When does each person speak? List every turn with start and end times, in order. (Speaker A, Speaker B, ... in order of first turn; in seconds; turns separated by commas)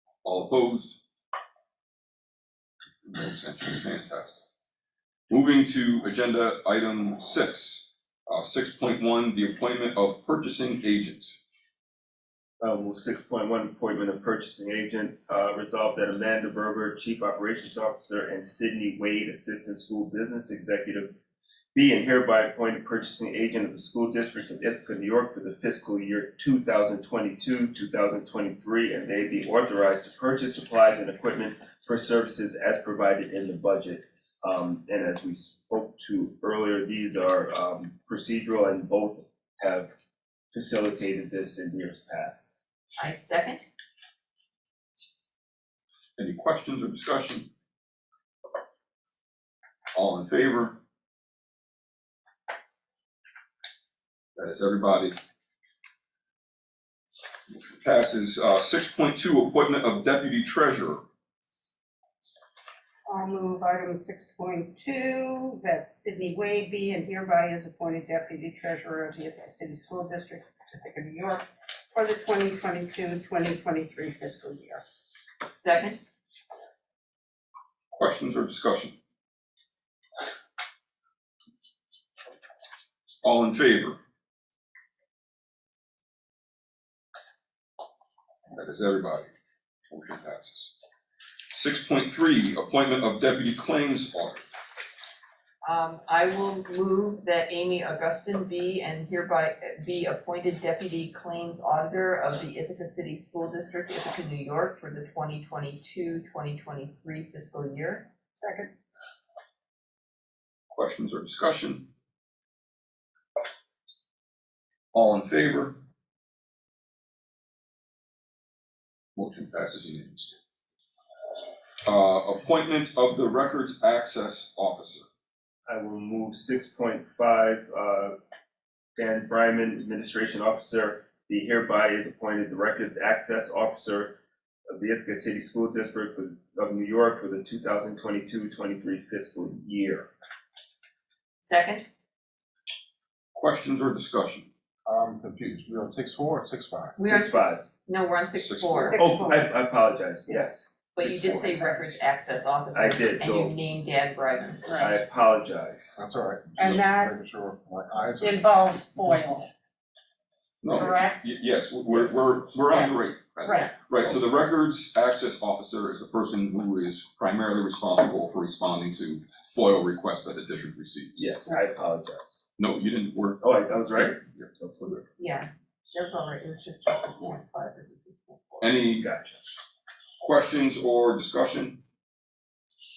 Speaker A: 0.2-0.9, Speaker A: 3.0-4.4, Speaker A: 5.3-11.4, Speaker B: 12.6-21.1, Speaker B: 21.7-39.9, Speaker B: 40.5-42.5, Speaker C: 43.0-43.6, Speaker A: 46.2-47.5, Speaker A: 49.9-50.8, Speaker A: 54.3-55.2, Speaker A: 57.5-61.0, Speaker D: 63.1-74.8, Speaker C: 75.5-76.0, Speaker A: 77.9-79.0, Speaker A: 83.2-84.0, Speaker A: 88.5-89.3, Speaker A: 89.9-90.7, Speaker A: 91.5-94.4, Speaker C: 95.6-108.1, Speaker D: 108.4-108.7, Speaker A: 110.7-111.9, Speaker A: 114.9-115.8, Speaker A: 119.2-120.4, Speaker A: 121.8-125.1, Speaker B: 125.7-128.1, Speaker B: 128.9-134.2, Speaker B: 134.7-140.1, Speaker C: 141.4-141.9, Speaker A: 143.3-144.5, Speaker E: 144.8-146.9, Speaker C: 147.0-149.0, Speaker B: 147.0-147.7, Speaker A: 148.3-149.0, Speaker D: 148.8-149.5, Speaker B: 148.9-150.9, Speaker C: 150.9-154.9, Speaker A: 151.0-151.6, Speaker B: 152.7-153.5, Speaker D: 154.7-155.0, Speaker B: 154.8-155.9, Speaker E: 155.9-158.4, Speaker D: 156.6-157.2, Speaker D: 158.0-159.5, Speaker A: 160.6-171.3, Speaker D: 160.7-161.2, Speaker D: 162.7-163.7, Speaker B: 171.2-172.4, Speaker A: 172.6-174.4, Speaker B: 173.4-175.0, Speaker C: 175.2-178.6, Speaker A: 178.6-179.1, Speaker B: 178.7-179.4, Speaker A: 180.2-181.8